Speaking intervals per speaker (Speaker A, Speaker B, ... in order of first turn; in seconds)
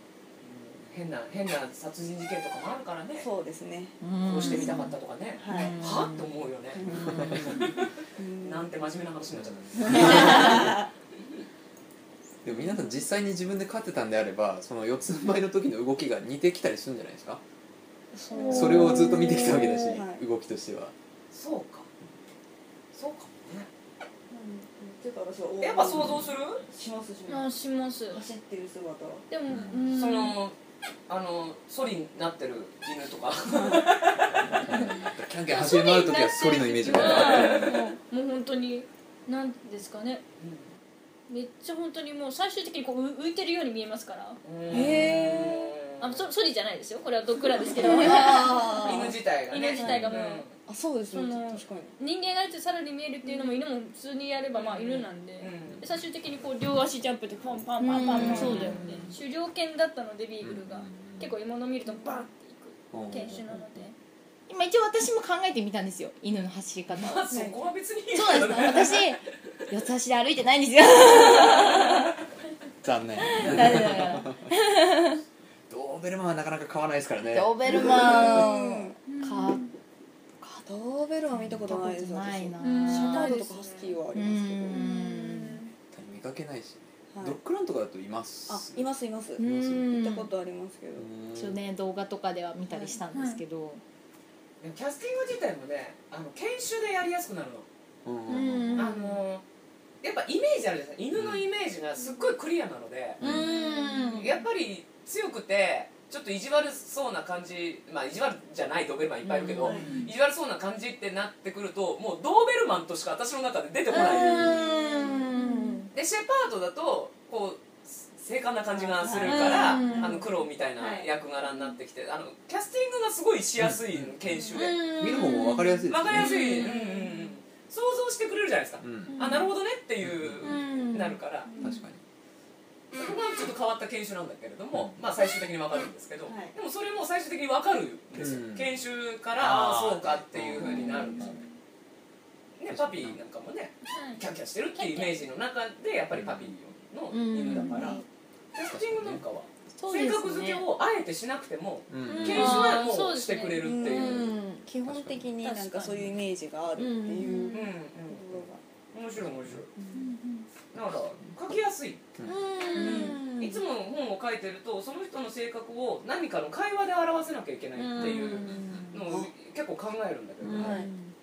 Speaker A: 0.4-3.3, 4.2-10.7, 21.3-21.9, 22.9-23.7, 25.6-26.6, 29.9-30.6, 31.1-34.7, 37.0-37.6, 40.4-40.7, 44.4-46.3, 48.8-50.5, 54.5-55.9, 66.9-69.2, 73.4-73.6, 94.6-97.7, 98.8-99.4, 100.0-103.2, 104.1-114.7, 115.9-124.8, 125.9-131.5, 132.9-141.4, 142.6-148.0, 148.6-154.3, 157.5-158.3, 158.9-159.7, 160.7-162.0, 162.8-170.9
Speaker B: 3.2-4.7, 5.4-5.8, 6.8-8.7, 9.8-10.9, 18.1-20.2, 24.3-27.6, 28.1-29.3, 33.5-34.0, 44.7-45.6, 47.8-49.1, 50.6-52.0, 58.1-58.6, 67.3-67.6, 77.7-79.0, 80.4-84.9, 87.1-87.4, 88.5-91.1, 92.7-93.0, 109.6-110.0, 114.5-115.2, 118.7-121.1, 126.5-126.8, 131.5-131.8, 136.3-136.6, 153.6-158.6, 159.8-160.0, 162.8-163.2, 170.5-170.9
Speaker C: 4.0-6.3, 44.7-45.4, 47.8-48.9, 57.8-58.9, 64.5-67.5, 68.1-72.1, 73.3-75.2, 77.3-79.7, 81.5-83.4, 84.1-85.6, 89.4-90.3, 91.3-93.8, 98.3-99.0, 103.2-104.3, 109.2-110.0, 113.9-115.9, 119.2-120.2, 124.5-127.0, 130.4-131.2, 147.1-148.0, 149.8-150.7, 152.1-152.7, 153.8-154.6, 156.8-157.7, 162.2-163.6, 167.8-168.9, 170.4-171.1
Speaker D: 7.0-7.6, 9.4-10.6, 12.4-17.4, 18.5-20.9, 29.5-29.9, 34.6-37.8, 49.8-50.1, 58.4-59.2, 60.4-61.3, 62.9-63.7, 72.8-74.5, 75.7-78.4, 85.9-88.9, 89.4-89.9, 91.0-91.6, 98.0-98.7, 101.2-101.4, 103.2-103.5, 123.6-124.2, 125.0-126.5, 128.8-129.2, 130.0-130.6, 131.6-132.0, 134.7-135.0, 138.2-138.7, 139.4-141.2, 142.7-143.2, 146.1-146.6, 148.6-149.2, 151.9-152.7, 154.8-155.3
Speaker E: 18.3-20.0, 27.3-28.2, 29.3-30.4, 35.5-40.2, 41.3-44.4, 46.0-63.9, 79.1-79.7, 82.6-84.0, 84.7-85.7, 93.1-93.4, 103.4-103.9, 109.8-110.1, 129.2-129.4, 141.1-141.4, 143.9-144.2, 144.8-145.3, 152.2-153.8, 155.4-156.0, 160.0-160.5, 162.8-163.2